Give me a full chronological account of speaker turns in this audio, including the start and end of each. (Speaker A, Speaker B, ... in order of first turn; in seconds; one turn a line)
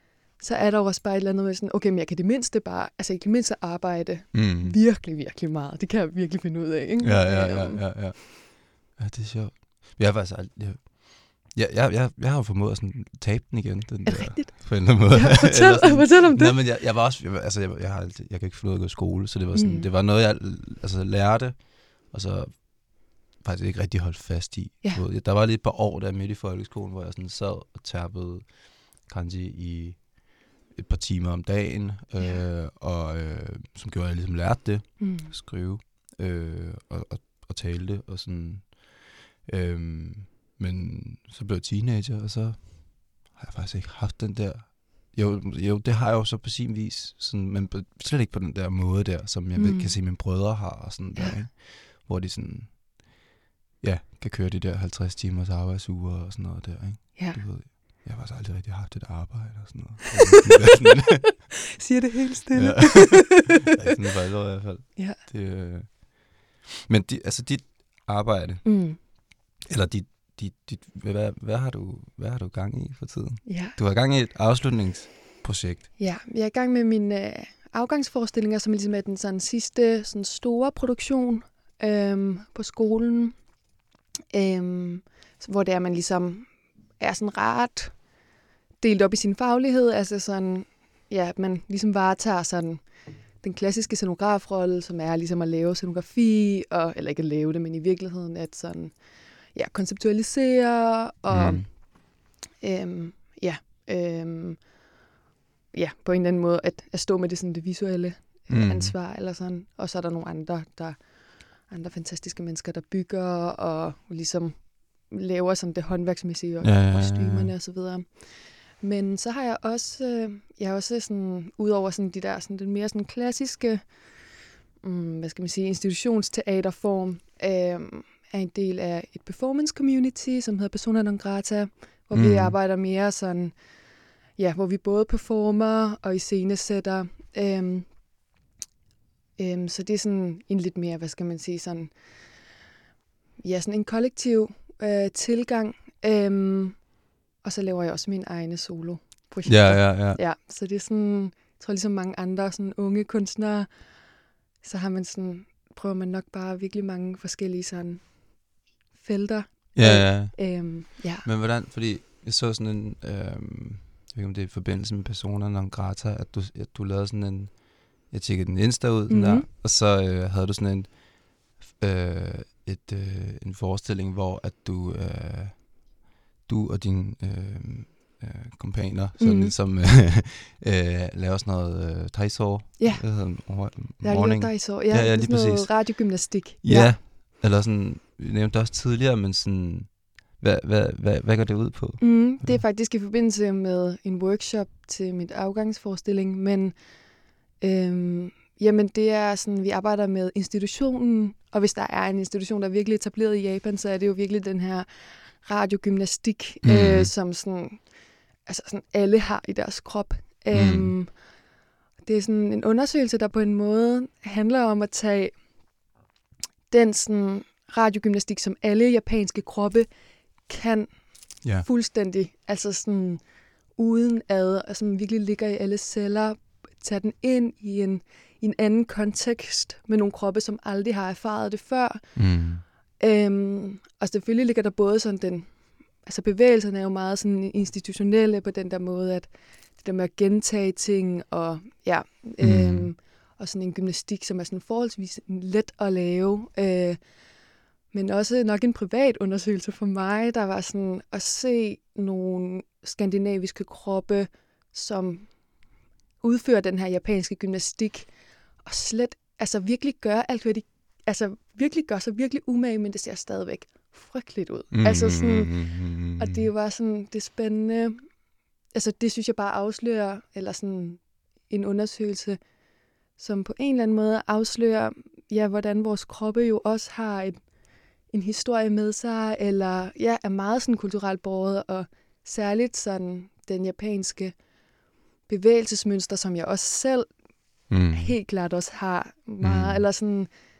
Speaker A: 0.4-7.8
Speaker B: 4.3-4.8
Speaker B: 7.0-53.3
Speaker A: 14.1-16.6
Speaker A: 19.6-19.9
Speaker A: 35.0-35.3
Speaker A: 49.5-50.0
Speaker B: 53.8-61.7
Speaker A: 61.8-63.5
Speaker B: 62.5-69.1
Speaker A: 68.7-69.0
Speaker B: 69.7-75.9
Speaker A: 73.5-73.8
Speaker A: 76.0-83.5
Speaker A: 84.3-88.2
Speaker A: 88.8-104.9
Speaker B: 101.3-101.7
Speaker A: 105.7-138.0
Speaker B: 108.5-109.0
Speaker B: 116.6-117.5
Speaker B: 132.1-132.6
Speaker A: 139.4-142.4
Speaker A: 143.4-161.2
Speaker B: 149.5-150.2
Speaker B: 159.8-192.6
Speaker A: 169.1-169.5
Speaker A: 179.2-179.5
Speaker A: 182.8-187.0
Speaker A: 192.0-211.3
Speaker B: 206.6-207.1
Speaker B: 210.5-210.9
Speaker A: 212.0-215.4
Speaker A: 216.7-232.4
Speaker B: 221.4-221.7
Speaker B: 232.2-232.6
Speaker A: 233.0-255.7
Speaker B: 242.4-242.9
Speaker A: 256.2-268.1
Speaker B: 264.7-266.5
Speaker A: 268.7-272.4
Speaker A: 273.1-284.4
Speaker A: 285.3-290.4
Speaker B: 287.7-288.2
Speaker B: 289.4-289.9